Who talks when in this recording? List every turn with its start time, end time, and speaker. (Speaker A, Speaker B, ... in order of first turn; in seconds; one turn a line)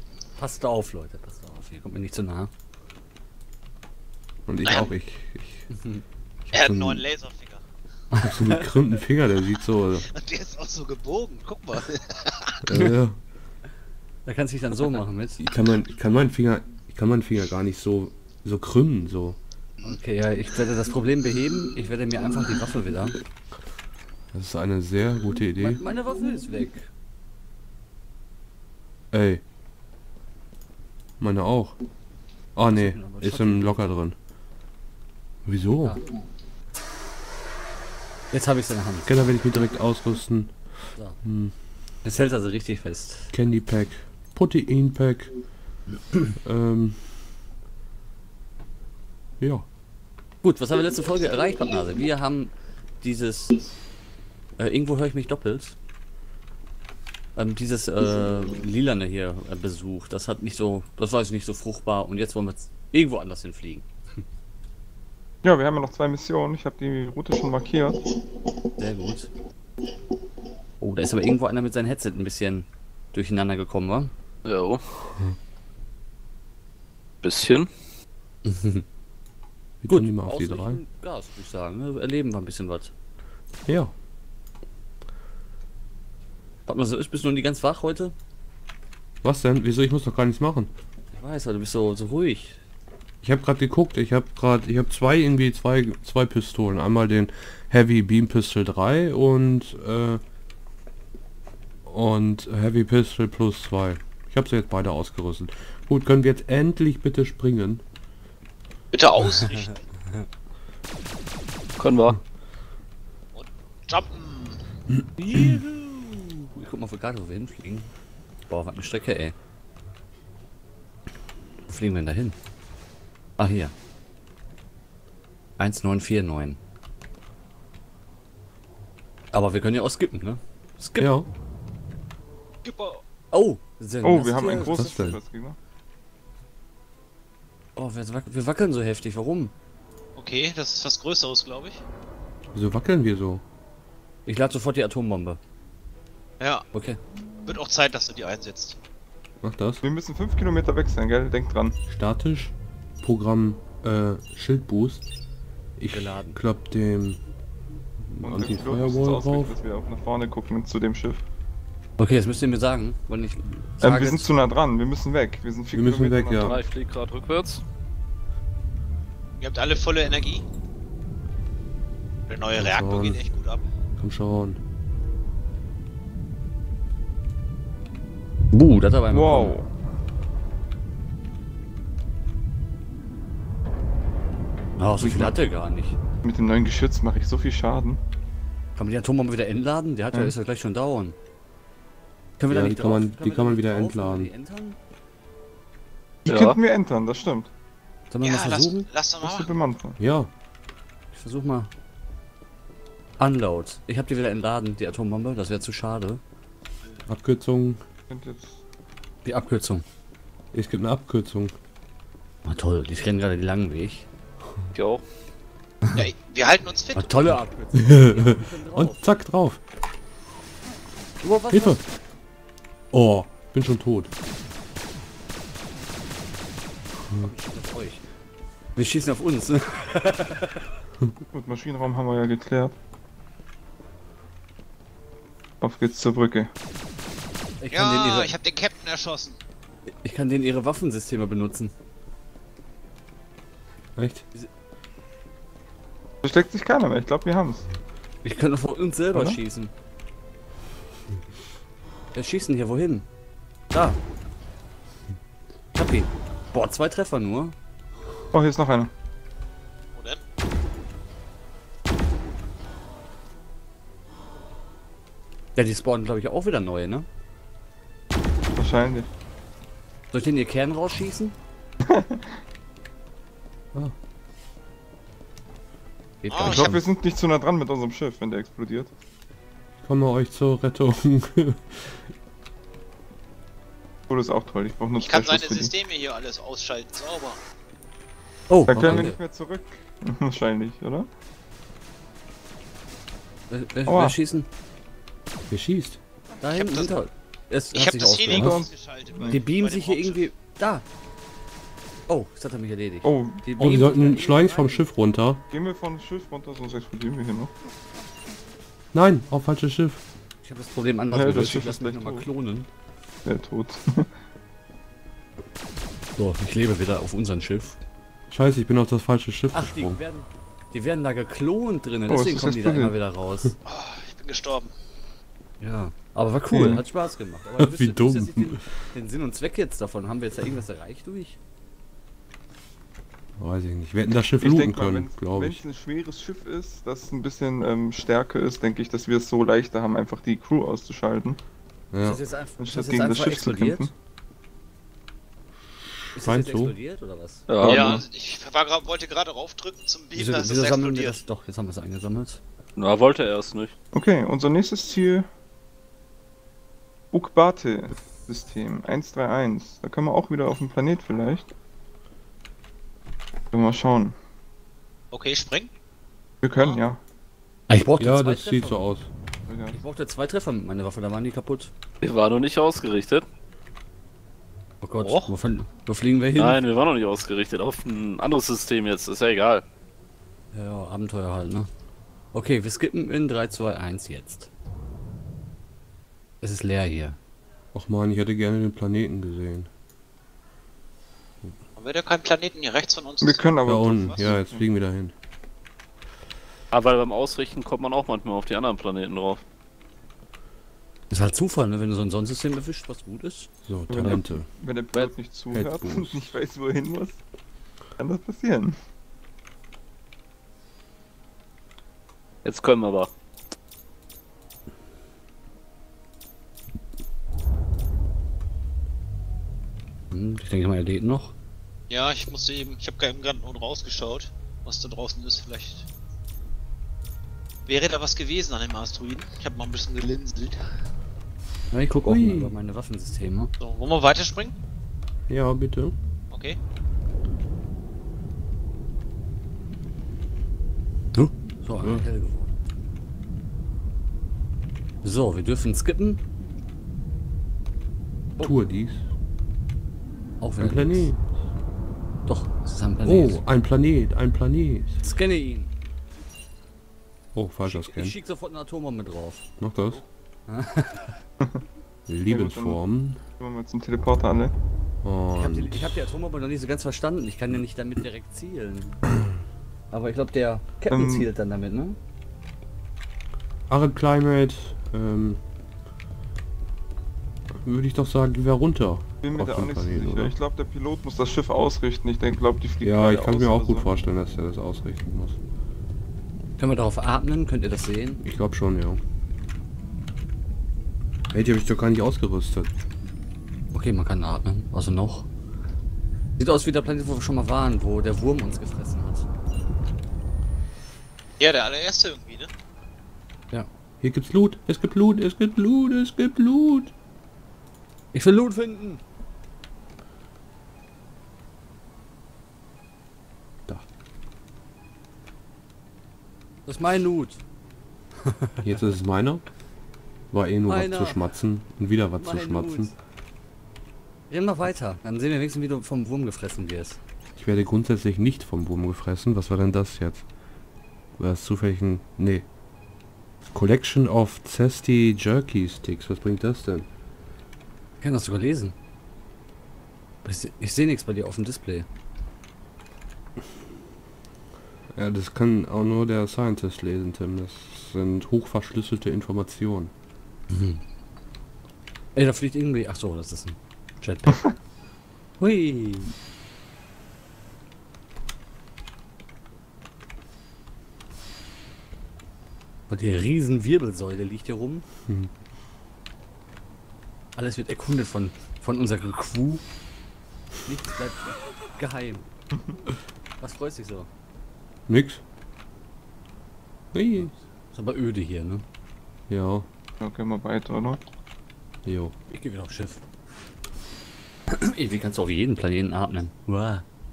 Speaker A: 0.4-2.5
Speaker B: 4.5-5.7
Speaker C: 4.6-4.9
Speaker A: 5.7-6.0
Speaker B: 6.5-7.0
Speaker C: 6.5-7.6
Speaker A: 8.1-8.6
Speaker B: 8.2-10.1
Speaker C: 10.1-12.6
Speaker B: 12.6-13.2
Speaker A: 14.2-15.4
Speaker B: 15.4-19.4
Speaker A: 19.8-23.2
Speaker B: 24.3-25.8
Speaker A: 25.6-26.9
Speaker B: 29.1-29.4
Speaker B: 31.2-31.8
Speaker B: 32.5-34.1
Speaker A: 32.7-33.9
Speaker B: 35.4-36.0
Speaker A: 38.3-39.6
Speaker B: 39.0-40.5
Speaker B: 41.2-41.5
Speaker A: 42.0-43.3
Speaker B: 43.3-45.3
Speaker B: 46.4-47.1
Speaker B: 49.4-49.7
Speaker A: 50.4-53.6
Speaker A: 54.6-55.8
Speaker A: 57.4-63.9
Speaker D: 65.4-68.1
Speaker A: 68.8-69.3
Speaker A: 70.8-74.1
Speaker E: 74.4-74.8
Speaker E: 77.2-77.7
Speaker A: 78.4-78.8
Speaker B: 79.8-80.8
Speaker A: 79.9-82.9
Speaker B: 83.7-83.9
Speaker A: 86.7-88.1
Speaker B: 89.2-90.7
Speaker A: 91.1-92.6
Speaker B: 93.2-100.2
Speaker B: 101.8-107.8
Speaker C: 108.9-109.7
Speaker A: 109.5-110.2
Speaker E: 111.8-112.2
Speaker C: 113.3-114.6
Speaker B: 115.0-115.6
Speaker A: 115.2-117.9
Speaker A: 118.5-119.3
Speaker A: 121.7-122.3
Speaker A: 123.4-123.7
Speaker A: 125.6-126.6
Speaker A: 129.3-131.1
Speaker B: 131.0-131.3
Speaker C: 132.6-133.0
Speaker A: 133.3-135.1
Speaker D: 134.0-135.6
Speaker B: 134.5-135.2
Speaker A: 137.8-139.5
Speaker C: 140.2-141.8
Speaker B: 142.5-143.4
Speaker A: 144.2-145.4
Speaker C: 146.4-146.6
Speaker A: 146.7-147.0
Speaker C: 147.5-148.8
Speaker B: 149.4-149.8
Speaker D: 149.8-151.8
Speaker B: 151.9-155.0
Speaker B: 155.8-157.2
Speaker A: 155.9-156.4
Speaker B: 158.0-159.6
Speaker D: 158.2-161.2
Speaker A: 162.0-164.3
Speaker D: 163.8-166.6
Speaker B: 165.7-166.6
Speaker E: 166.4-167.6
Speaker C: 169.4-170.4
Speaker C: 172.3-173.6
Speaker B: 172.6-173.2
Speaker B: 174.0-174.6
Speaker A: 178.5-179.6
Speaker D: 179.1-179.7
Speaker A: 184.8-186.0
Speaker D: 185.0-185.3
Speaker D: 186.2-188.0
Speaker A: 188.8-191.2
Speaker A: 192.4-194.8
Speaker B: 192.5-194.3
Speaker D: 196.2-197.5
Speaker E: 196.3-196.6
Speaker A: 198.1-198.9
Speaker C: 198.2-199.5
Speaker D: 199.2-200.0
Speaker B: 200.0-200.3
Speaker A: 201.1-201.7
Speaker A: 203.2-206.2
Speaker B: 207.1-207.8
Speaker D: 208.1-208.6
Speaker A: 209.2-209.8
Speaker B: 210.5-211.5
Speaker A: 212.4-214.1
Speaker E: 214.7-215.0
Speaker C: 215.9-217.2
Speaker A: 216.9-219.2
Speaker B: 217.7-219.6
Speaker A: 221.2-221.8
Speaker B: 221.5-221.8
Speaker B: 222.9-224.1
Speaker A: 227.2-228.0
Speaker A: 228.8-230.6
Speaker D: 231.3-232.7
Speaker D: 235.6-236.5
Speaker A: 237.6-238.3
Speaker C: 237.7-239.4
Speaker A: 239.9-241.7
Speaker B: 243.9-244.2
Speaker D: 246.2-247.7
Speaker A: 248.2-249.7
Speaker D: 249.1-249.4
Speaker A: 252.1-253.1
Speaker A: 253.7-254.0
Speaker A: 255.7-257.5
Speaker D: 258.3-258.9
Speaker C: 259.9-260.2
Speaker A: 265.6-267.1
Speaker D: 268.5-269.1
Speaker A: 270.1-271.4
Speaker D: 271.9-272.2
Speaker A: 276.2-276.8
Speaker C: 276.3-276.8
Speaker D: 276.4-278.9
Speaker B: 279.8-282.0
Speaker D: 284.1-285.7
Speaker C: 285.0-287.4
Speaker A: 288.5-289.2
Speaker B: 288.7-289.1
Speaker D: 288.7-291.1
Speaker A: 293.5-294.5
Speaker D: 293.9-294.2
Speaker B: 295.5-296.0
Speaker A: 296.4-298.6
Speaker C: 296.5-297.0
Speaker C: 297.7-300.3
Speaker B: 298.3-298.6
Speaker D: 298.3-299.4
Speaker A: 299.3-300.8
Speaker A: 302.1-304.9
Speaker D: 303.0-303.4
Speaker B: 303.6-305.4
Speaker D: 305.5-307.5
Speaker B: 308.9-310.0
Speaker A: 310.4-312.7
Speaker D: 311.1-312.3
Speaker D: 313.2-314.1
Speaker A: 316.1-317.8
Speaker B: 318.3-320.0
Speaker A: 319.5-323.6
Speaker D: 322.1-322.9
Speaker C: 323.6-324.7
Speaker A: 325.6-331.4
Speaker D: 326.5-326.8
Speaker B: 327.6-328.6
Speaker B: 333.4-335.6
Speaker D: 334.4-341.4
Speaker B: 341.9-342.2
Speaker A: 342.0-343.9
Speaker D: 342.6-343.9
Speaker B: 345.8-346.8
Speaker A: 346.1-347.5
Speaker E: 347.5-348.0
Speaker D: 347.6-348.0
Speaker C: 347.6-351.2
Speaker A: 350.1-352.4
Speaker E: 352.8-353.7
Speaker D: 353.9-355.3
Speaker D: 357.1-361.5
Speaker D: 363.5-364.1
Speaker C: 365.1-365.7
Speaker D: 366.4-367.0
Speaker A: 367.7-368.9
Speaker B: 368.0-369.1
Speaker D: 369.5-369.8
Speaker A: 369.7-371.7
Speaker E: 372.0-373.2
Speaker A: 374.8-376.6
Speaker C: 375.0-375.3
Speaker E: 376.4-379.6
Speaker A: 380.5-381.7
Speaker A: 382.3-384.5
Speaker A: 386.4-387.2
Speaker B: 387.7-389.7
Speaker C: 391.8-394.4
Speaker D: 393.2-394.6
Speaker B: 393.6-395.1
Speaker E: 396.7-399.4
Speaker A: 401.1-403.5
Speaker B: 403.6-404.5
Speaker D: 403.9-407.2
Speaker B: 405.5-406.4
Speaker D: 408.0-408.8
Speaker E: 412.4-413.1
Speaker A: 420.1-421.3
Speaker C: 421.9-425.9
Speaker C: 427.7-430.6
Speaker A: 431.7-433.5
Speaker B: 432.1-432.6
Speaker C: 433.6-434.5
Speaker B: 435.3-435.9
Speaker C: 436.3-436.6
Speaker A: 441.1-442.5
Speaker B: 441.8-442.1
Speaker A: 445.0-446.2
Speaker B: 448.4-449.0
Speaker A: 450.4-451.1
Speaker B: 450.6-451.2
Speaker A: 452.2-453.4
Speaker B: 453.0-455.0
Speaker A: 455.0-455.7
Speaker B: 457.3-458.1
Speaker A: 457.6-459.5
Speaker B: 459.6-460.0
Speaker A: 460.5-461.1
Speaker B: 462.1-463.2
Speaker D: 462.3-462.8
Speaker D: 463.4-464.5
Speaker B: 465.0-466.1
Speaker A: 465.4-469.0
Speaker A: 469.9-472.0
Speaker D: 470.9-471.3
Speaker B: 473.7-475.4
Speaker B: 477.6-480.3
Speaker D: 479.2-483.9
Speaker B: 482.8-485.4
Speaker A: 486.6-488.2
Speaker B: 488.2-489.0
Speaker B: 491.3-492.7
Speaker A: 493.7-495.3
Speaker A: 496.4-499.3
Speaker C: 501.4-502.5
Speaker B: 504.0-506.9
Speaker A: 508.1-509.0
Speaker A: 516.6-517.4
Speaker A: 518.2-518.6
Speaker B: 518.6-519.4
Speaker B: 520.3-522.9
Speaker A: 520.7-521.3
Speaker A: 522.2-522.9
Speaker A: 524.3-527.0
Speaker B: 527.4-530.2
Speaker B: 531.2-532.5
Speaker B: 533.5-536.9
Speaker A: 538.0-538.7
Speaker A: 540.2-541.9
Speaker B: 544.9-549.9
Speaker A: 550.5-550.8
Speaker A: 552.1-554.5
Speaker A: 555.4-556.1
Speaker A: 562.9-564.9
Speaker A: 567.4-569.6
Speaker A: 570.6-572.3
Speaker A: 573.4-574.1
Speaker B: 574.9-575.2
Speaker B: 576.9-577.3
Speaker A: 577.7-578.6
Speaker B: 579.3-579.7
Speaker D: 580.0-581.0
Speaker B: 581.8-582.1
Speaker A: 582.3-583.0
Speaker A: 584.5-586.8